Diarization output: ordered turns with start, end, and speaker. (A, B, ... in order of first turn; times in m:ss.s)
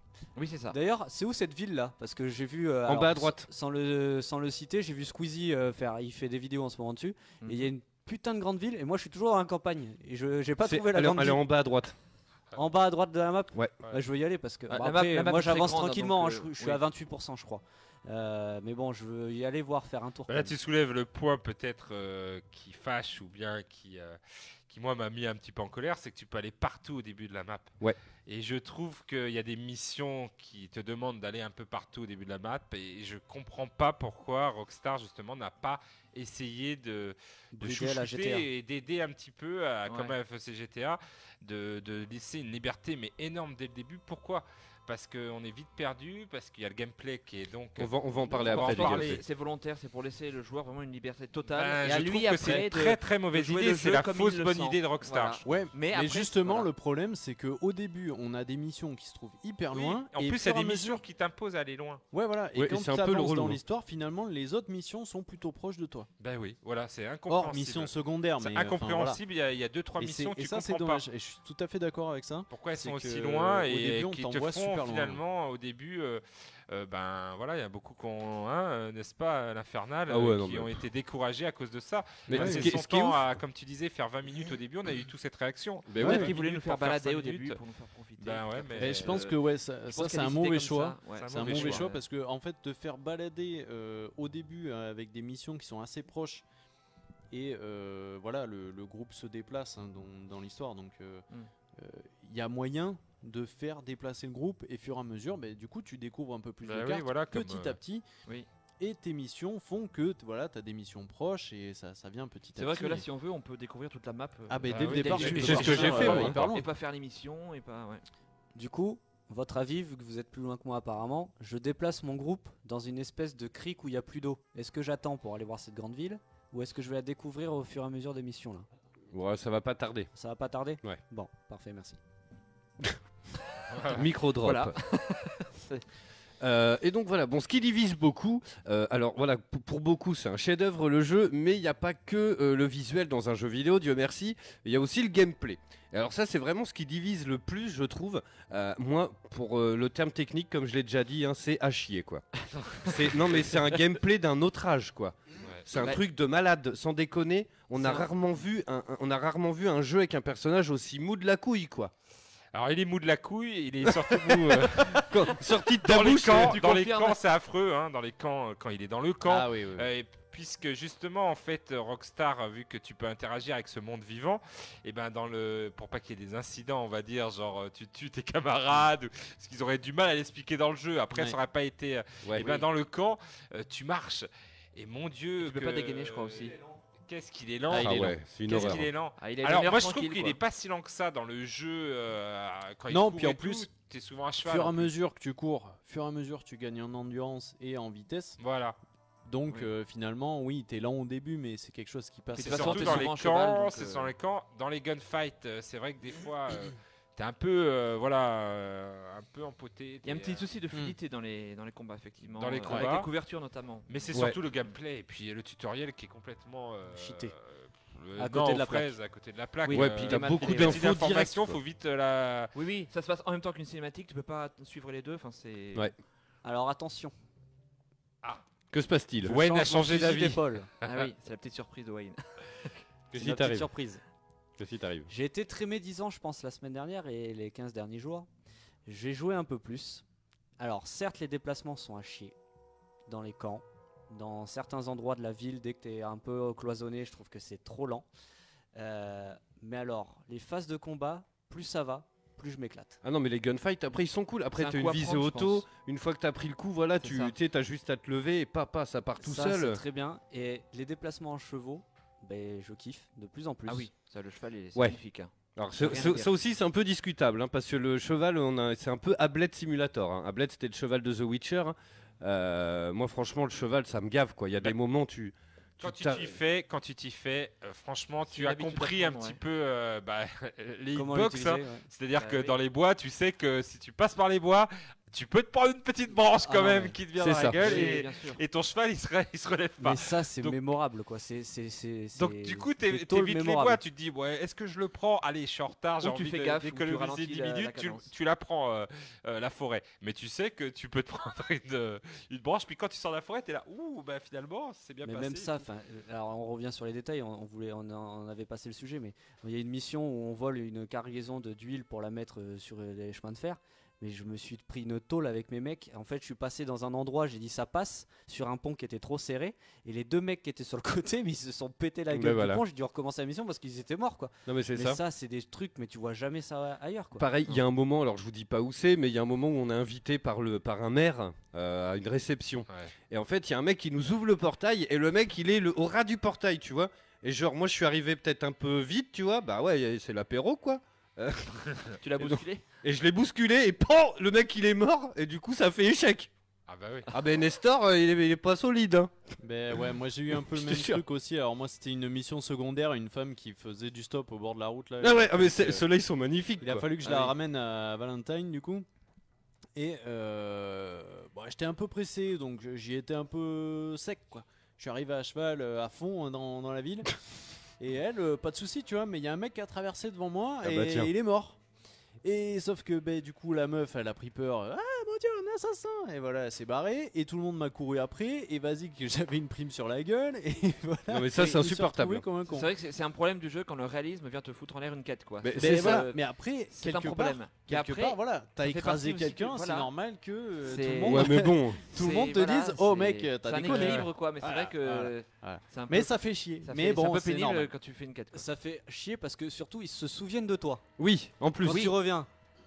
0:00.4-0:00.8 A
0:00.7-0:11.4 B
0:02.9-0:03.5 C
0:07.4-0:07.7 A
0:10.6-0:11.9 C
0:12.5-0:20.6 B
0:14.7-0:16.8 A
0:20.3-0:27.7 D
0:28.2-0:49.2 D
0:37.5-0:38.5 B
0:39.9-0:40.2 A
0:47.8-0:49.2 C
0:48.3-0:56.7 A
0:51.5-0:55.6 D
0:55.4-1:01.0 E
0:59.7-1:02.0 D
1:02.1-1:06.1 E
1:02.5-1:03.6 C
1:06.2-1:11.0 D
1:07.3-1:09.2 E
1:10.0-1:15.2 E
1:12.5-1:27.6 D
1:20.1-1:20.8 C
1:22.3-1:23.3 C
1:22.3-1:22.7 E
1:25.9-1:26.3 C
1:26.0-1:32.0 A
1:28.2-1:29.2 D
1:28.8-1:36.4 E
1:31.1-1:31.9 D
1:37.3-1:41.2 E
1:41.8-1:48.0 E
1:46.6-1:47.8 D
1:48.8-1:53.0 E
1:52.6-1:58.0 A
1:54.5-1:56.6 E
1:54.7-1:56.5 D
1:55.2-1:56.4 C
1:58.5-2:08.6 B
2:09.1-2:10.1 C
2:10.1-2:12.0 B
2:13.7-2:14.0 D
2:13.8-2:14.7 C
2:14.4-2:15.8 A
2:16.4-2:32.2 C
2:32.8-2:41.9 C
2:35.7-2:36.0 A
2:37.7-2:38.1 A
2:42.5-3:14.9 D
2:43.8-2:46.6 C
2:46.3-2:47.2 A
2:49.2-2:49.9 E
3:02.2-3:02.6 C
3:05.4-3:06.6 A
3:07.7-3:08.2 E
3:07.7-3:08.9 C
3:08.5-3:10.4 A
3:12.9-3:13.7 E
3:14.4-3:18.4 E
3:18.4-3:18.8 D
3:19.2-3:23.1 E
3:22.3-3:24.1 A
3:22.4-3:30.5 D
3:30.0-3:34.2 A
3:32.3-3:33.1 D
3:33.9-3:42.5 D
3:34.1-3:34.4 C
3:36.9-3:37.3 B
3:38.2-3:38.9 B
3:39.6-3:40.9 A
3:39.7-3:41.6 C
3:42.5-3:45.9 A
3:46.4-3:47.1 B
3:48.7-3:49.4 C
3:49.2-3:51.0 D
3:49.2-3:50.7 B
3:50.8-3:52.7 A
3:53.1-3:53.7 C
3:53.2-3:54.0 B
3:54.6-3:55.1 C
3:55.1-3:58.3 B
3:58.8-4:00.0 B
4:00.6-4:02.3 B
4:03.1-4:08.0 B
4:08.8-4:13.0 B
4:13.0-4:19.8 C
4:14.5-4:15.6 A
4:17.0-4:17.3 A
4:19.2-4:23.9 B
4:23.7-4:26.3 A
4:25.6-4:36.4 C
4:35.8-4:50.6 D
4:38.3-4:39.4 A
4:40.9-4:41.8 B
4:42.2-4:42.6 A
4:46.4-4:47.0 B
4:47.2-4:47.7 C
4:47.6-4:48.4 A
4:49.8-4:53.8 B
4:52.2-5:05.6 D
4:56.0-4:58.1 A
5:05.0-5:27.2 B
5:22.1-5:22.6 C
5:24.4-5:25.0 C
5:27.2-5:46.3 C
5:42.0-5:42.6 A
5:46.7-5:47.1 D
5:47.1-5:49.1 C
5:49.4-5:55.8 E
5:49.8-5:51.0 C
5:55.0-5:56.9 C
5:56.6-5:58.8 E
5:57.0-5:57.3 A
5:59.7-6:07.1 E
6:07.8-6:11.6 E
6:10.6-6:11.1 C
6:12.2-6:22.7 E
6:21.1-6:22.2 C
6:22.5-6:29.9 A
6:25.4-6:26.1 C
6:25.6-6:37.7 E
6:30.6-6:38.5 A
6:31.0-6:31.8 C
6:33.7-6:34.1 D
6:38.3-6:40.8 B
6:41.0-6:41.9 C
6:41.6-6:42.3 B
6:41.6-6:41.9 A